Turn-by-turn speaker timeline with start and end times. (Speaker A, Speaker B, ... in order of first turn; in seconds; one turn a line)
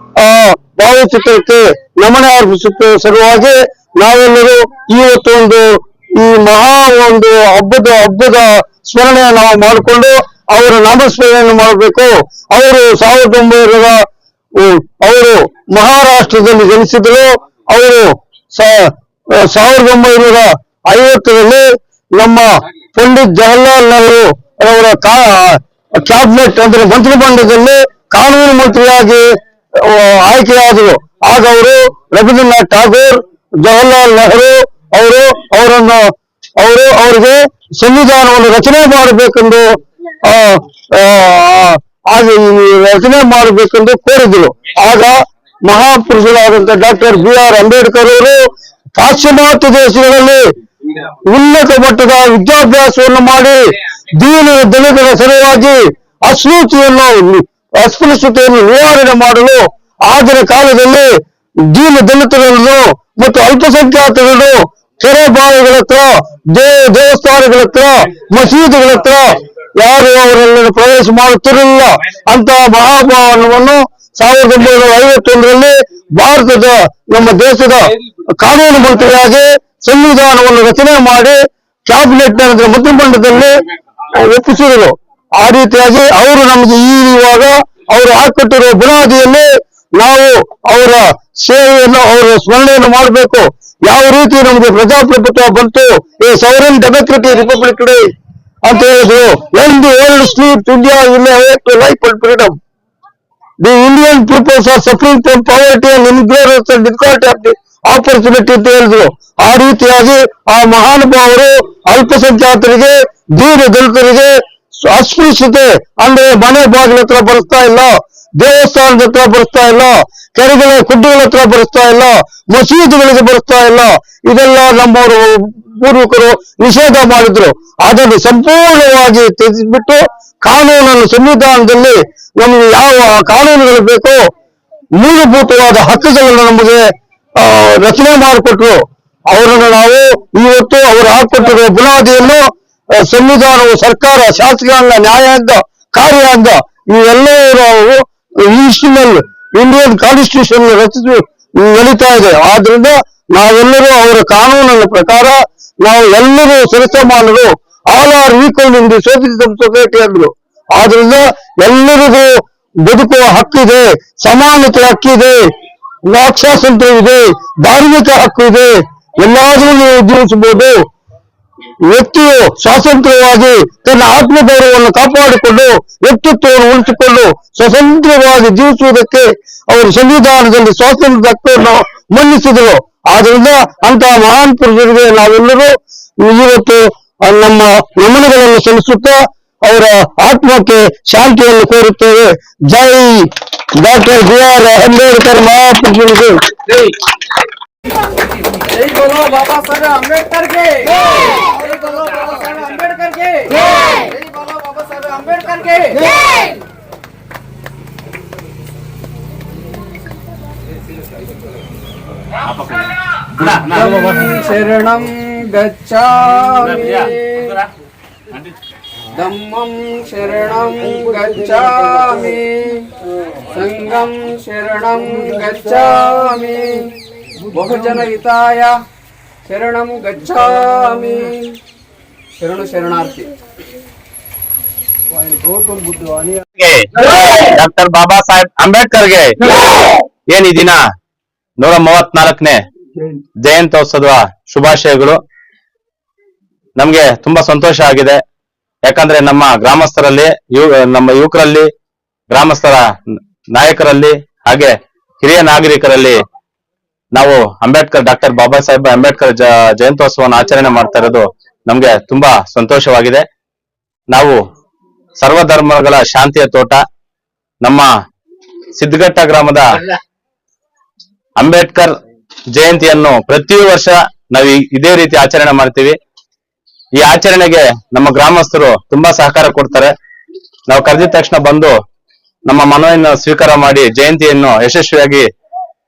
Speaker A: 0.1-29.2
Speaker A: 29.7-39.6
Speaker A: 40.2-48.4
Speaker A: 49.0-50.4
Speaker A: 51.2-61.1
Speaker A: 61.6-83.6
Speaker A: 84.1-98.0
Speaker A: 98.6-102.5
Speaker A: 103.6-134.2
Speaker A: 135.0-136.8
Speaker A: 137.4-138.8
Speaker A: 139.3-165.4
Speaker A: 166.0-170.8
Speaker A: 171.9-196.8
Speaker B: 198.6-206.5
Speaker C: 213.4-213.7
Speaker B: 213.7-217.5
Speaker A: 214.0-216.1
Speaker A: 219.1-221.7
Speaker B: 219.2-222.9
Speaker A: 223.5-225.1
Speaker B: 223.7-226.9
Speaker A: 225.7-226.6
Speaker B: 227.5-228.7
Speaker A: 228.1-228.6
Speaker A: 229.5-230.5
Speaker B: 229.5-231.5
Speaker A: 232.4-233.1
Speaker B: 232.4-233.3
Speaker C: 236.6-239.8
Speaker C: 240.3-240.8
Speaker C: 241.6-242.6
Speaker C: 243.4-245.2
Speaker C: 246.8-248.2
Speaker C: 248.9-251.7
Speaker C: 252.3-252.8
Speaker C: 253.5-256.2
Speaker C: 257.1-263.2
Speaker C: 264.1-264.4
Speaker C: 265.2-266.8
Speaker C: 268.8-269.6
Speaker C: 271.4-271.9
Speaker C: 272.5-276.0
Speaker C: 277.0-279.9
Speaker C: 280.7-281.7
Speaker C: 282.5-285.2